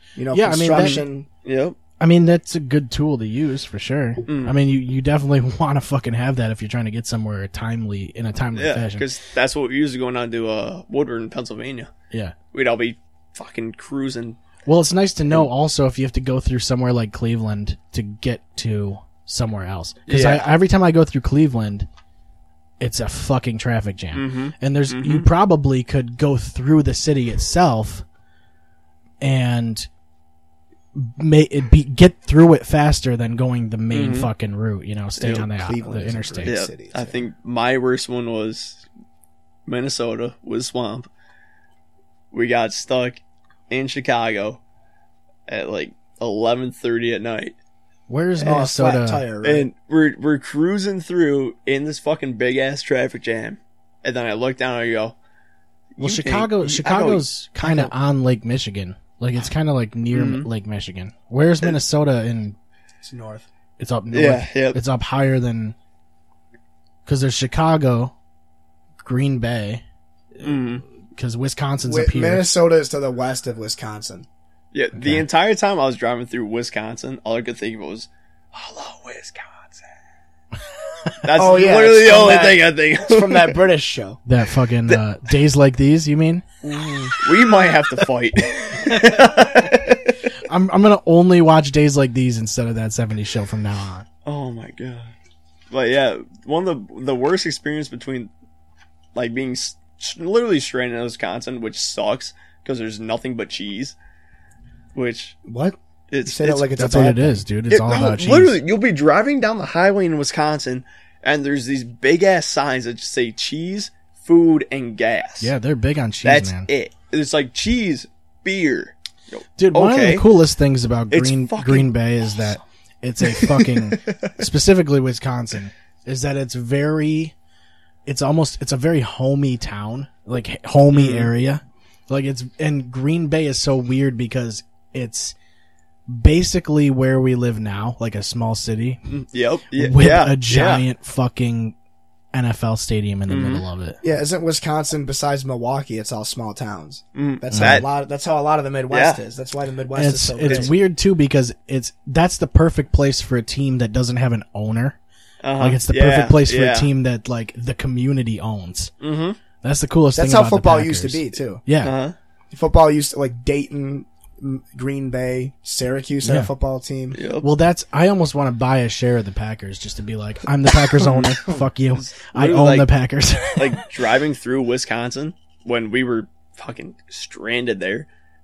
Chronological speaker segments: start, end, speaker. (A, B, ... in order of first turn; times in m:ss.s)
0:00.2-0:01.3 A
0:00.3-0:01.0 B
0:00.8-0:01.8 C
0:02.0-0:09.1 B
0:04.3-0:04.6 C
0:08.6-0:11.9 C
0:12.5-0:14.4 C
0:14.7-0:21.9 B
0:20.1-0:20.5 C
0:22.8-0:28.0 B
0:24.2-0:25.3 C
0:29.2-0:29.9 B
0:31.0-0:36.6 B
0:33.9-0:34.3 C
0:35.2-0:35.5 C
0:35.5-0:37.2 A
0:36.4-0:38.8 C
0:39.7-0:41.1 C
0:42.3-0:43.2 C
0:43.7-0:44.6 C
0:45.5-0:47.5 C
0:48.1-0:49.2 B
0:48.4-0:48.6 C
0:48.4-0:49.7 A
0:49.4-0:55.2 C
0:56.0-0:57.9 C
0:56.0-1:02.6 B
1:00.1-1:00.5 C
1:03.0-1:03.5 A
1:03.8-1:05.8 B
1:04.1-1:04.8 C
1:07.1-1:08.1 B
1:09.0-1:09.8 B
1:10.4-1:10.8 C
1:11.2-1:12.5 B
1:11.8-1:14.3 A
1:14.7-1:19.8 C
1:15.0-1:15.3 B
1:21.2-1:23.6 C
1:21.4-1:24.2 A
1:24.3-1:26.4 B
1:26.6-1:30.2 C
1:30.5-1:34.1 B
1:34.2-1:35.1 C
1:35.7-1:38.3 C
1:39.2-1:44.0 C
1:45.0-1:45.4 C
1:45.5-1:47.4 A
1:46.1-1:46.7 C
1:46.8-1:48.6 B
1:47.7-1:55.5 C
1:55.4-1:56.7 B
1:56.2-2:00.3 C
1:59.6-2:07.3 B
2:01.1-2:01.9 C
2:08.1-2:15.4 B
2:10.9-2:11.3 C
2:16.1-2:19.0 B
2:19.1-2:20.8 C
2:19.8-2:21.8 B
2:22.3-2:24.0 B
2:23.3-2:23.6 C
2:24.0-2:30.7 A
2:27.2-2:27.8 C
2:27.5-2:27.8 B
2:28.9-2:29.2 C
2:30.0-2:35.0 B
2:30.4-2:30.7 C
2:35.4-2:36.9 C
2:35.6-2:38.9 B
2:39.0-2:39.4 C
2:39.6-2:41.9 B
2:40.1-2:41.6 A
2:41.8-2:42.2 C
2:42.5-2:47.2 A
2:46.2-2:46.5 B
2:47.1-2:47.5 C
2:47.4-2:53.8 B
2:51.0-2:51.4 C
2:52.0-2:52.9 C
2:53.6-2:58.1 C